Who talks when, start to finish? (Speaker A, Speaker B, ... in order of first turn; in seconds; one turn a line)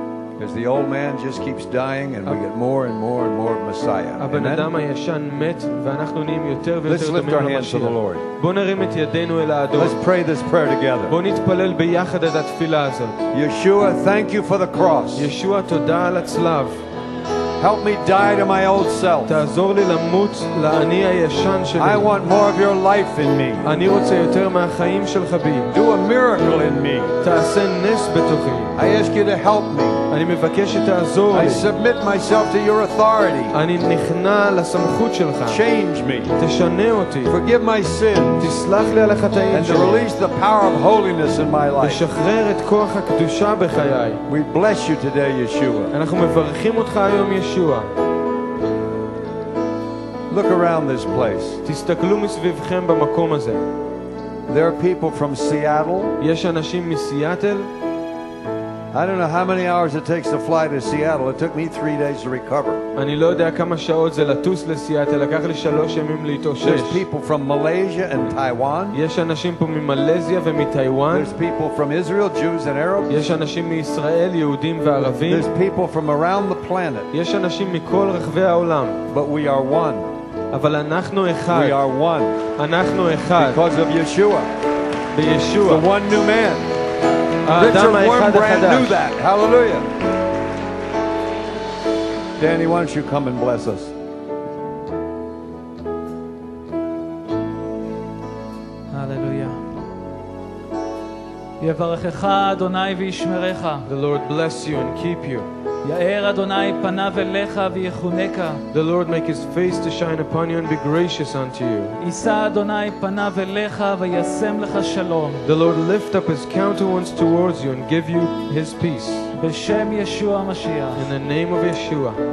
Speaker A: 0.4-4.7
Speaker B: 4.2-10.0
Speaker A: 6.9-8.2
Speaker A: 9.8-11.2
Speaker B: 11.1-13.3
Speaker A: 13.3-15.3
Speaker B: 15.2-16.8
Speaker A: 17.6-19.4
Speaker B: 19.3-22.1
Speaker A: 21.8-23.8
Speaker B: 23.6-25.7
Speaker A: 25.7-27.2
Speaker B: 27.2-28.7
Speaker A: 28.8-30.1
Speaker B: 30.1-31.7
Speaker A: 31.3-33.6
Speaker B: 33.5-35.6
Speaker A: 35.5-36.4
Speaker B: 36.4-37.4
Speaker A: 37.3-38.6
Speaker B: 38.4-40.1
Speaker A: 39.5-42.1
Speaker B: 41.8-44.2
Speaker A: 44.3-45.9
Speaker B: 45.9-47.9
Speaker A: 50.3-51.6
Speaker B: 51.6-53.6
Speaker A: 54.5-56.2
Speaker B: 56.2-57.7
Speaker A: 58.9-62.9
Speaker B: 63.0-67.0
Speaker A: 66.6-69.0
Speaker B: 68.9-71.3
Speaker A: 71.1-73.2
Speaker B: 73.1-75.5
Speaker A: 75.3-77.1
Speaker B: 77.1-79.0
Speaker A: 79.1-80.1
Speaker B: 80.5-81.8
Speaker A: 81.5-82.4
Speaker B: 82.6-83.6
Speaker A: 83.4-84.5
Speaker B: 85.1-85.9
Speaker A: 85.7-86.7
Speaker B: 87.4-89.0
Speaker A: 87.5-89.9
Speaker A: 92.4-93.9
Speaker C: 98.9-99.7
Speaker C: 101.6-103.9
Speaker B: 103.9-105.5
Speaker C: 105.8-108.7
Speaker B: 108.7-112.0
Speaker C: 112.0-115.5
Speaker B: 115.4-119.3
Speaker C: 119.3-121.1
Speaker B: 121.0-122.2